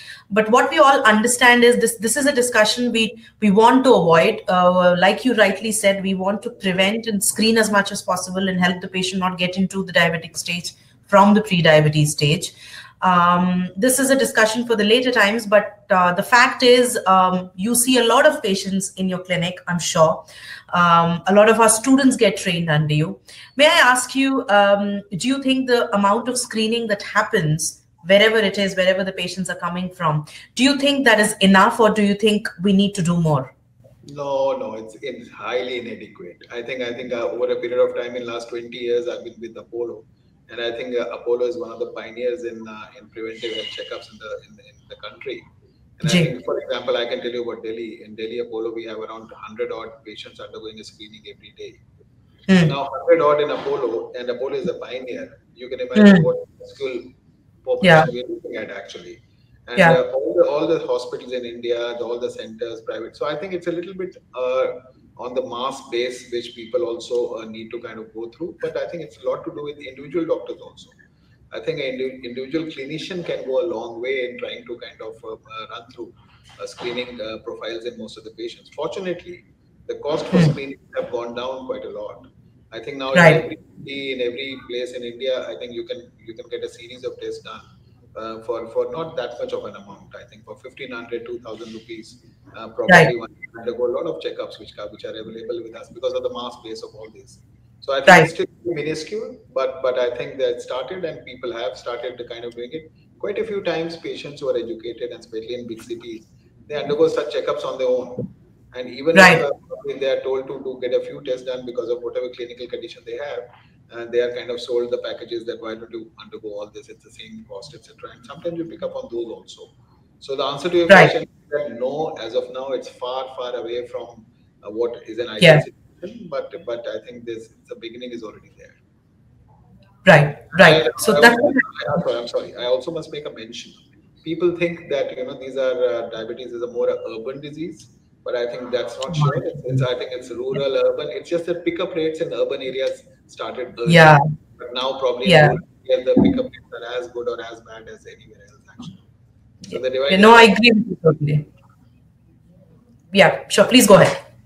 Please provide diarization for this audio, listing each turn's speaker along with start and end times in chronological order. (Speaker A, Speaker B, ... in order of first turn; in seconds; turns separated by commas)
Speaker A: 0.3-33.5, Speaker B: 34.1-45.4, Speaker B: 46.0-51.8, Speaker A: 46.0-46.3, Speaker B: 52.6-57.0, Speaker A: 56.0-56.3, Speaker B: 57.6-71.0, Speaker A: 57.8-58.1, Speaker B: 71.5-87.6, Speaker A: 83.1-83.4, Speaker B: 88.2-128.8, Speaker A: 98.1-98.3, Speaker A: 109.1-109.4, Speaker A: 120.9-121.1, Speaker A: 130.1-131.6, Speaker B: 130.6-149.0, Speaker A: 139.1-139.4, Speaker A: 143.9-144.2, Speaker A: 145.2-145.6, Speaker B: 149.7-150.5, Speaker A: 149.7-151.4, Speaker A: 153.1-154.2